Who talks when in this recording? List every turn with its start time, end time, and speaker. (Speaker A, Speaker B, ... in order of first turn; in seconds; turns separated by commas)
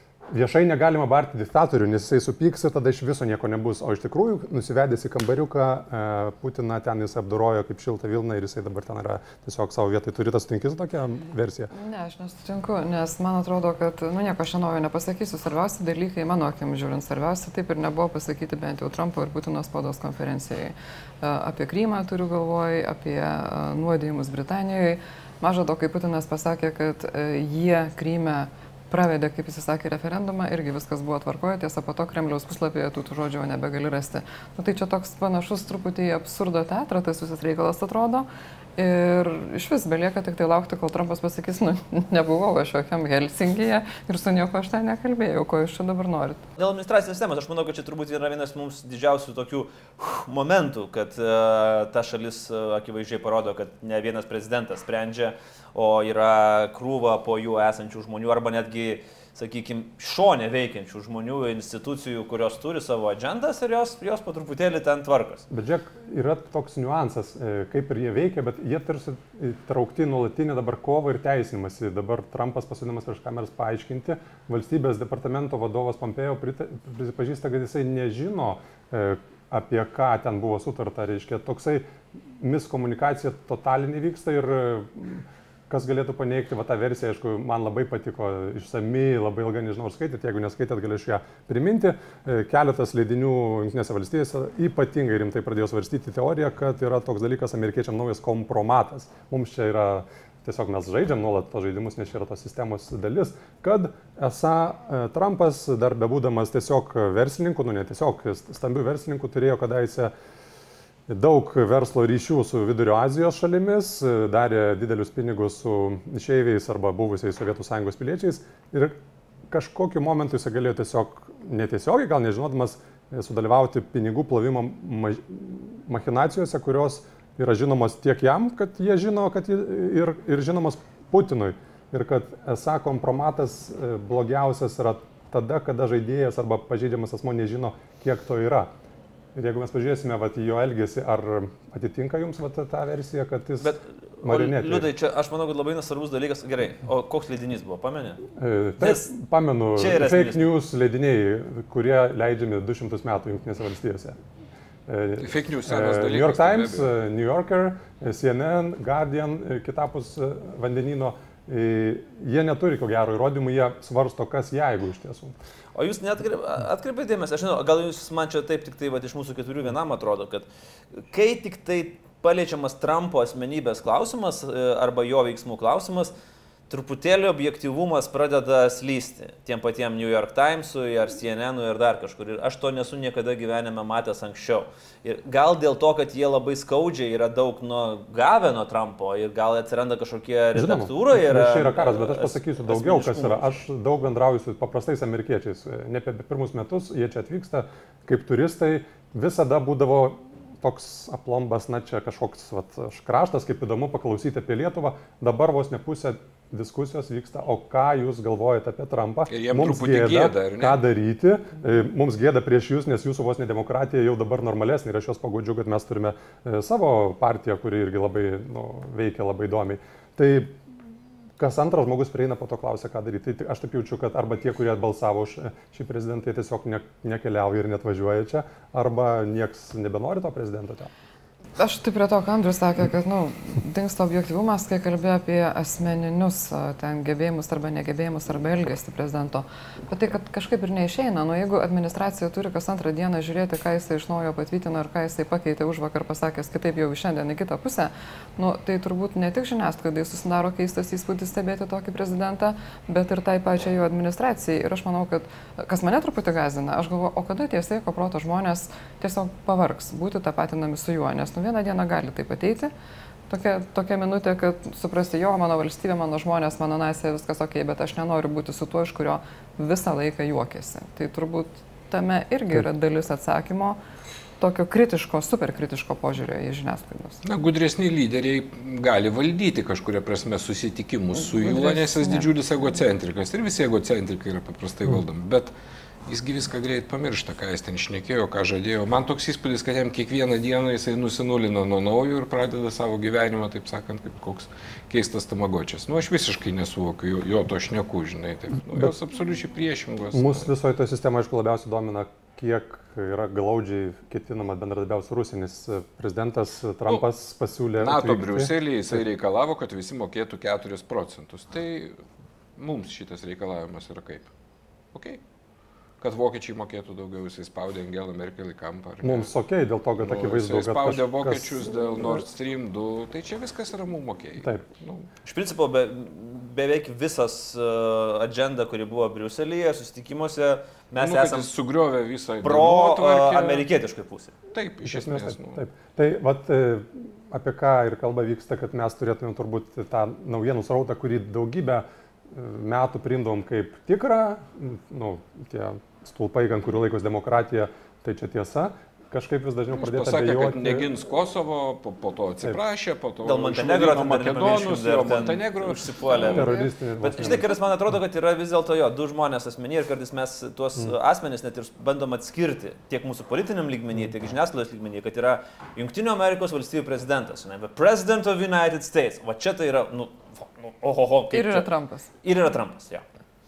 Speaker A: 0.3-11.7, Speaker B: 11.7-46.4, Speaker C: 46.6-65.5, Speaker A: 65.5-81.8, Speaker A: 82.4-110.1, Speaker A: 111.1-119.0, Speaker A: 119.5-138.7, Speaker A: 139.3-143.7, Speaker C: 143.6-148.2, Speaker A: 144.2-144.9, Speaker A: 148.3-154.2, Speaker C: 148.8-149.1, Speaker C: 149.8-150.5, Speaker A: 154.9-165.3, Speaker D: 155.2-156.9, Speaker C: 165.8-176.1, Speaker C: 176.7-193.6, Speaker A: 190.5-220.6, Speaker D: 209.3-210.8, Speaker A: 221.4-230.9, Speaker B: 231.6-262.7, Speaker B: 263.3-273.8, Speaker B: 274.4-277.2, Speaker D: 277.2-285.5, Speaker B: 281.2-282.3, Speaker D: 286.1-300.5, Speaker A: 300.1-309.0, Speaker D: 307.8-312.0, Speaker D: 312.6-314.3, Speaker D: 314.9-315.2, Speaker D: 316.0-319.3, Speaker A: 319.0-321.7, Speaker D: 320.0-325.1, Speaker A: 324.4-324.7, Speaker C: 325.2-331.5, Speaker D: 331.0-333.7, Speaker C: 332.4-334.3, Speaker D: 334.5-335.6, Speaker A: 334.9-350.9, Speaker D: 349.8-356.4, Speaker C: 353.2-371.7, Speaker B: 356.2-356.6, Speaker A: 356.2-357.5, Speaker B: 371.3-372.1, Speaker C: 372.2-373.0